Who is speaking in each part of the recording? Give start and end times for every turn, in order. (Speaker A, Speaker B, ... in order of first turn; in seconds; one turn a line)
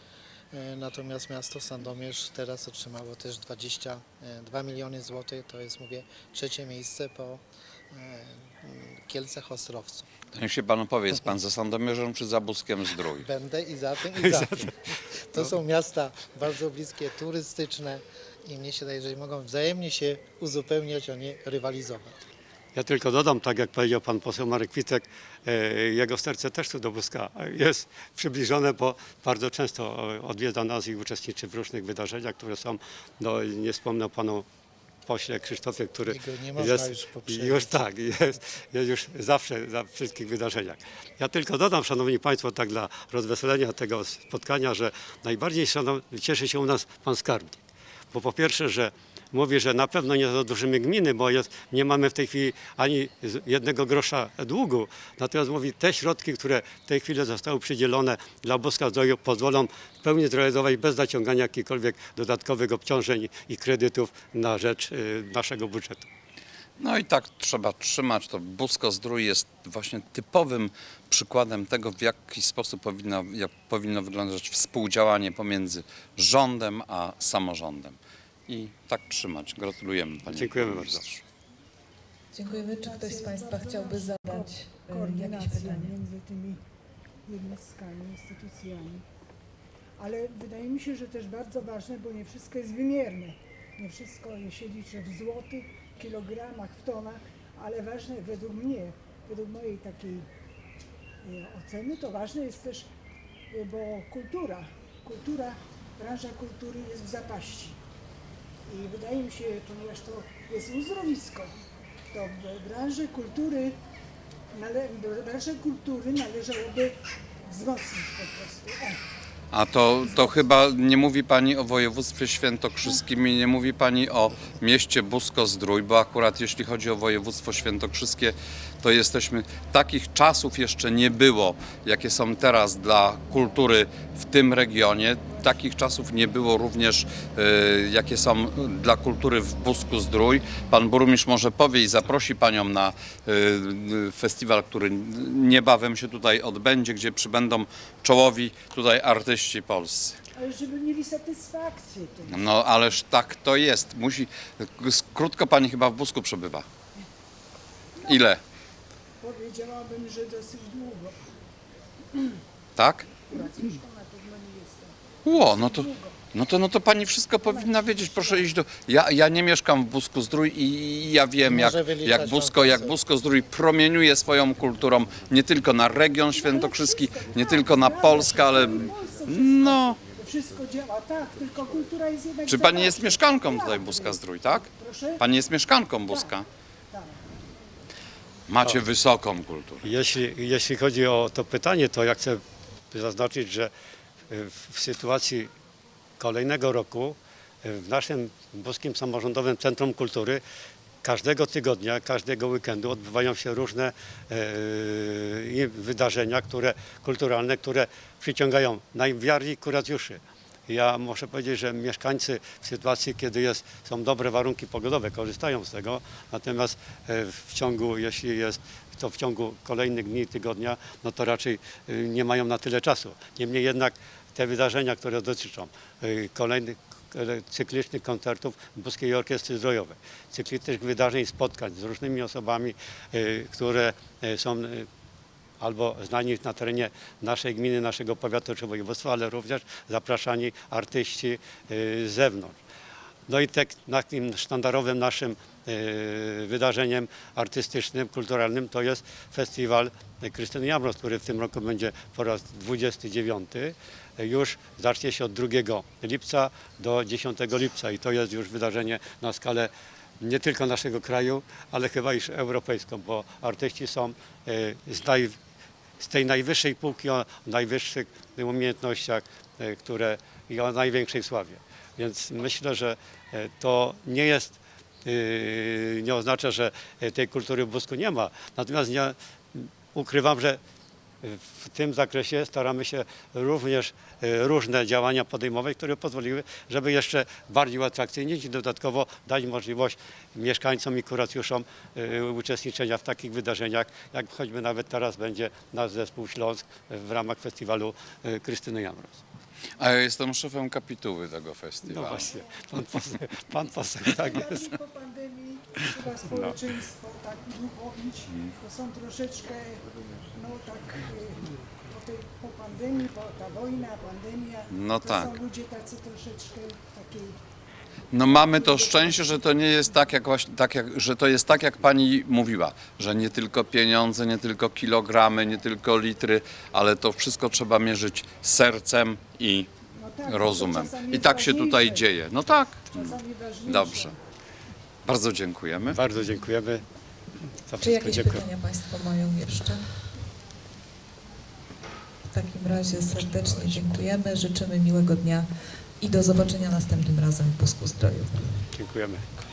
Speaker A: 0.5-10.1
Speaker B: 10.3-13.3
Speaker A: 13.2-22.2
Speaker C: 14.3-14.6
Speaker C: 22.7-34.4
Speaker C: 35.0-66.1
Speaker A: 36.1-37.8
Speaker B: 66.8-81.2
Speaker C: 80.3-81.0
Speaker D: 82.3-86.0
Speaker E: 82.5-86.6
Speaker E: 87.2-89.0
Speaker E: 90.0-100.3
Speaker E: 101.2-102.9
Speaker E: 103.5-107.8
Speaker E: 108.7-111.5
Speaker E: 112.1-113.8
Speaker E: 114.5-119.0
Speaker B: 119.5-150.2
Speaker E: 150.3-152.4
Speaker B: 152.3-156.7
Speaker E: 158.0-158.3
Speaker B: 158.0-158.4
Speaker E: 159.2-161.3
Speaker B: 162.8-163.2
Speaker E: 163.3-166.2
Speaker B: 165.2-180.0
Speaker E: 167.4-168.5
Speaker A: 171.4-173.0
Speaker E: 176.3-185.4
Speaker B: 182.5-184.7
Speaker B: 185.2-186.4
Speaker E: 186.1-186.3
Speaker E: 186.9-187.2
Speaker B: 188.5-189.9
Speaker C: 189.8-193.7
Speaker C: 194.3-195.5
Speaker C: 196.2-200.4
Speaker C: 201.0-234.9
Speaker C: 235.6-242.6
Speaker C: 243.3-265.4
Speaker C: 266.0-280.6
Speaker C: 281.2-299.2
Speaker B: 299.8-302.2
Speaker C: 301.8-304.7
Speaker E: 304.1-317.4
Speaker C: 306.3-306.6
Speaker B: 314.7-315.4
Speaker B: 318.1-329.7
Speaker E: 318.3-319.6
Speaker E: 329.9-332.1
Speaker B: 330.2-334.1
Speaker E: 332.9-334.1
Speaker B: 335.0-336.0
Speaker C: 335.9-336.8
Speaker C: 337.7-338.4
Speaker D: 337.8-339.9
Speaker D: 342.3-345.5
Speaker D: 346.0-348.6
Speaker C: 348.7-349.4